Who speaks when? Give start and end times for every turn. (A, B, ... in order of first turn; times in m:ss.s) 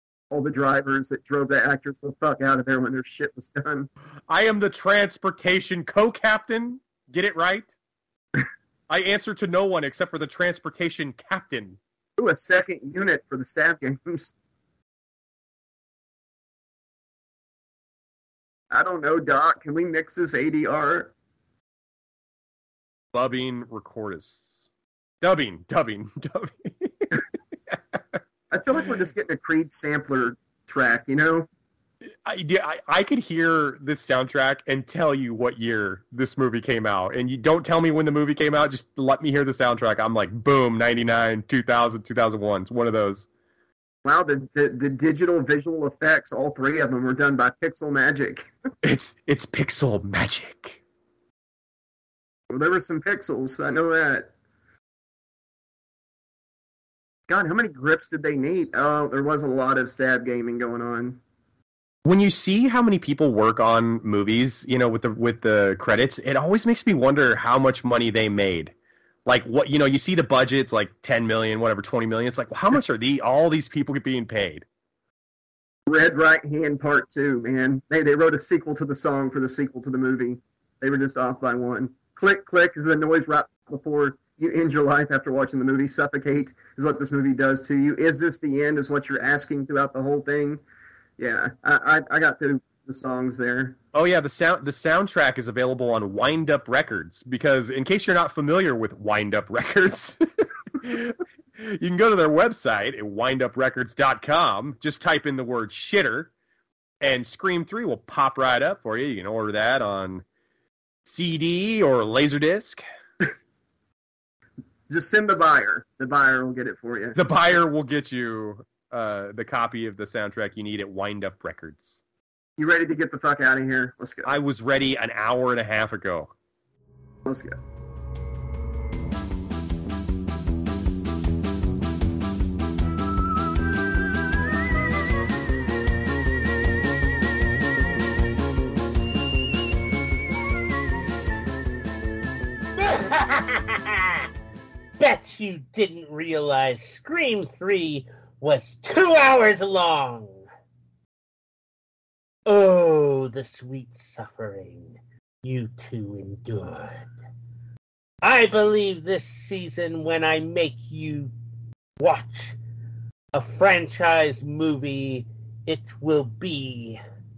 0:00.3-0:03.9 A
0:04.3-0:07.7 B
0:08.9-0:11.8 B
0:12.2-0:14.4 A
0:18.7-0:21.1 A
0:23.1-0:24.7 B
0:25.2-0:28.2 B
0:28.5-0:31.5 A
0:32.2-0:43.3 B
0:44.0-0:48.5 A
0:48.8-0:50.8 B
0:52.5-0:54.3 A
0:57.3-1:01.2 A
1:02.0-1:08.7 B
1:09.3-1:14.7 B
1:15.9-1:30.6 A
1:31.2-1:33.8 A
1:33.9-1:40.2 B
1:40.7-1:46.3 B
1:47.0-1:50.2 B
1:51.0-1:52.8 B
1:54.9-1:57.2 A
1:57.2-2:02.0 B
2:02.6-2:04.4 A
2:04.2-2:06.3 B
2:07.2-2:07.6 A
2:22.8-2:24.3 C
2:25.0-2:30.5 C
2:32.5-2:37.1 C
2:38.2-2:41.3 C
2:42.0-2:42.6 C
2:43.3-2:47.0 C